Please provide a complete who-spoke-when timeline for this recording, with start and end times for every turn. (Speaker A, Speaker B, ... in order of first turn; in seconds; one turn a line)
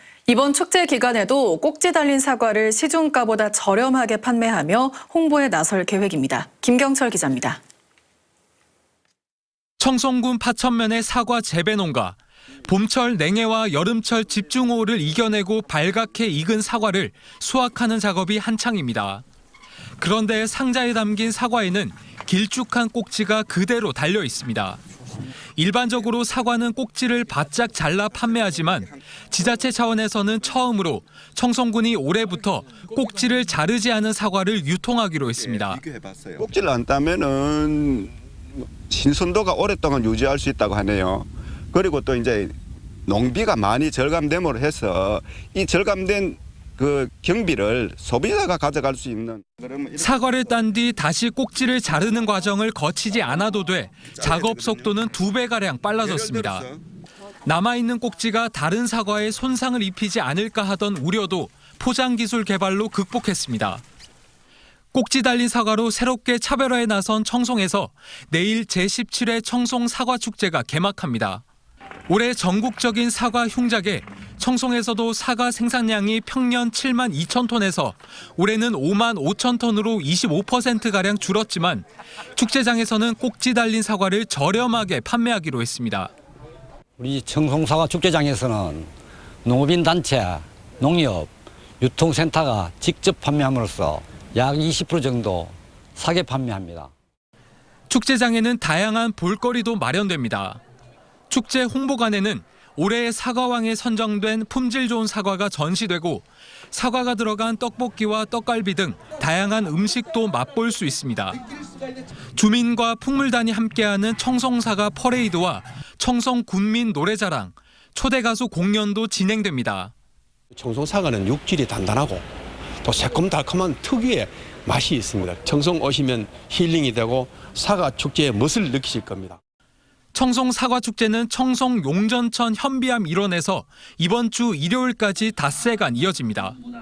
Speaker A: 0.3-7.6
Speaker B: 9.8-19.2
Speaker B: 20.0-24.8
Speaker B: 25.6-35.8
Speaker C: 35.4-42.5
Speaker C: 43.1-49.8
Speaker B: 50.0-56.7
Speaker C: 54.2-54.9
Speaker C: 56.0-56.8
Speaker B: 57.5-63.8
Speaker B: 64.9-71.4
Speaker B: 72.1-86.1
Speaker D: 87.0-88.9
Speaker D: 89.5-96.9
Speaker B: 97.9-100.6
Speaker B: 101.3-111.4
Speaker B: 112.4-119.9
Speaker E: 120.5-122.3
Speaker E: 122.8-129.4
Speaker B: 130.1-136.6